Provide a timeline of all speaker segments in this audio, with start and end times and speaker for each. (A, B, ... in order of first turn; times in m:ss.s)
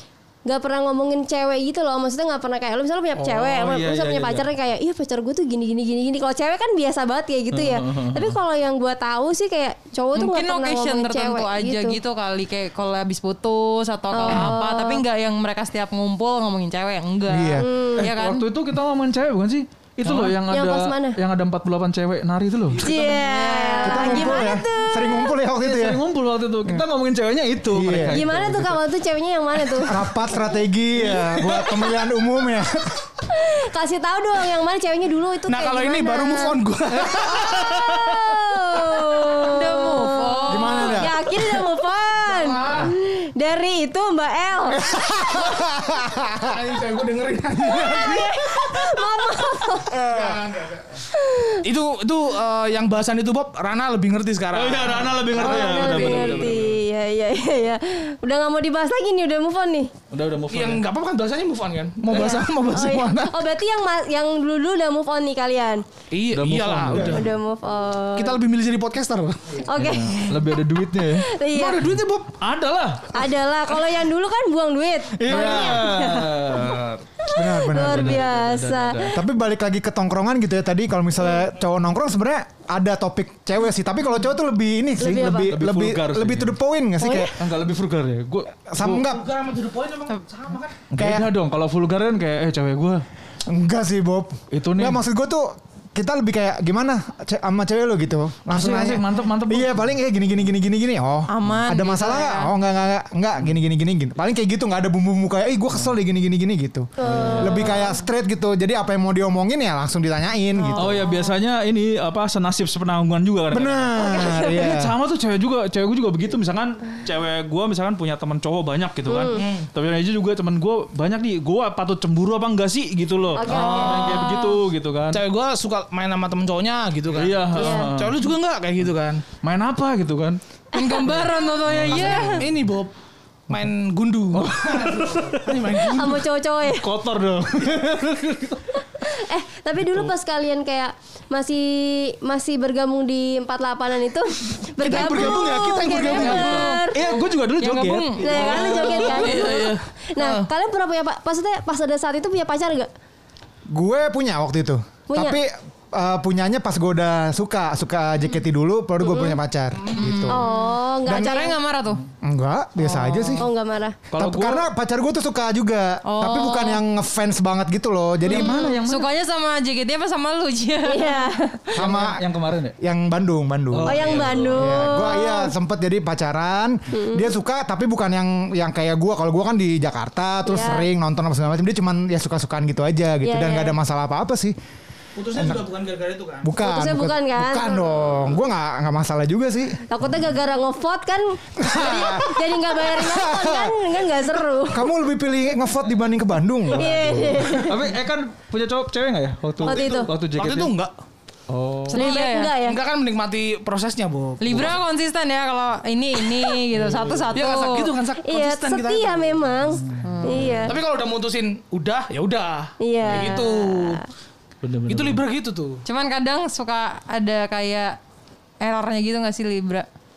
0:00.5-0:12.0 A
0:03.2-0:04.5 B
0:07.5-0:08.4 B
0:10.2-0:18.4 C
0:14.1-0:15.0 A
0:17.3-0:17.7 D
0:17.6-0:18.1 A
0:18.0-0:22.9 B
0:20.1-0:21.2 A
0:22.8-0:25.4 A
0:22.8-0:24.6 C
0:23.8-0:26.0 D
0:25.6-0:28.8 B
0:27.7-0:28.2 D
0:28.1-0:30.1 A
0:29.8-0:33.1 D
0:33.3-0:44.9 A
0:35.5-0:37.5 E
0:39.4-0:41.1 C
0:40.5-0:41.2 D
0:42.3-0:42.9 E
0:44.8-0:46.5 D
0:46.4-0:48.4 E
0:47.6-0:50.0 A
0:50.0-0:51.0 E
0:50.0-0:50.4 D
0:51.1-0:51.6 A
0:51.6-0:56.6 E
0:54.5-0:56.8 B
0:55.4-0:59.9 A
1:00.1-1:00.8 B
1:00.5-1:03.4 E
1:02.1-1:05.8 A
1:06.1-1:07.3 E
1:06.3-1:07.3 B
1:07.0-1:08.4 A
1:08.2-1:09.6 E
1:09.6-1:11.9 A
1:09.7-1:11.3 B
1:11.5-1:12.3 E
1:12.4-1:13.8 B
1:13.1-1:19.2 A
1:15.2-1:17.0 B
1:15.3-1:16.0 D
1:17.3-1:18.3 D
1:17.7-1:19.2 B
1:19.1-1:27.3 D
1:25.0-1:25.5 A
1:25.1-1:26.6 B
1:27.0-1:27.4 A
1:27.4-1:29.0 B
1:28.7-1:29.3 D
1:29.0-1:30.8 E
1:30.9-1:33.0 B
1:31.0-1:31.3 D
1:33.5-1:51.0 D
1:34.5-1:35.0 B
1:38.5-1:39.9 B
1:41.3-1:42.5 C
1:47.0-1:48.0 A
1:47.0-1:47.9 B
1:50.6-1:51.3 A
1:50.8-2:05.2 B
1:53.5-1:54.9 D
1:54.0-1:54.5 A
1:59.1-1:59.4 A
1:59.3-1:59.7 E
2:03.4-2:04.3 A
2:03.5-2:04.2 E
2:04.0-2:04.6 C
2:05.1-2:09.2 E
2:07.1-2:08.2 B
2:07.6-2:07.9 A
2:09.4-2:10.4 B
2:10.7-2:11.6 A
2:10.7-2:12.5 C
2:11.1-2:12.6 B
2:11.9-2:12.9 E
2:13.5-2:14.5 E
2:14.3-2:16.1 B
2:15.4-2:16.2 E
2:15.9-2:16.9 A
2:16.6-2:18.8 B
2:19.0-2:27.2 A
2:19.8-2:20.1 B
2:24.8-2:26.8 E
2:24.9-2:25.2 B
2:25.9-2:28.7 C
2:26.9-2:29.6 B
2:28.2-2:32.9 A
2:28.3-2:30.5 E
2:33.7-2:40.4 D
2:35.1-2:35.4 A
2:39.0-2:39.4 A
2:40.0-2:42.0 C
2:40.3-2:41.6 A
2:41.0-2:41.5 D
2:42.2-2:43.5 D
2:42.8-2:43.4 C
2:43.4-2:44.0 A
2:44.1-2:44.7 B
2:44.2-2:48.8 D
2:46.1-2:46.8 C
2:48.2-2:49.1 B
2:48.4-2:48.8 A
2:48.4-2:51.6 C
2:50.9-2:51.4 A
2:51.8-2:52.2 D
2:51.8-2:52.8 B
2:52.8-3:04.6 D
2:53.7-2:54.9 B
2:53.8-2:55.5 A
2:56.9-2:57.3 A
3:00.5-3:00.9 A
3:03.2-3:03.8 A
3:05.2-3:06.6 E
3:05.4-3:05.6 D
3:06.4-3:09.8 D
3:06.6-3:07.9 A
3:09.9-3:14.9 A
3:11.6-3:13.8 D
3:14.6-3:17.6 D
3:16.7-3:17.8 A
3:16.8-3:20.7 B
3:17.4-3:17.8 E
3:19.6-3:20.9 E
3:19.7-3:20.1 A
3:21.5-3:22.1 B
3:21.9-3:22.8 A
3:21.9-3:22.6 C
3:22.5-3:24.7 E
3:24.4-3:27.9 C
3:26.7-3:27.3 B
3:27.3-3:29.4 E
3:28.2-3:30.8 A
3:29.7-3:30.7 B
3:30.0-3:30.6 C
3:30.4-3:34.0 E
3:32.8-3:34.0 A
3:34.6-3:35.2 B
3:34.9-3:35.8 E
3:35.8-3:38.0 C
3:38.6-3:39.9 C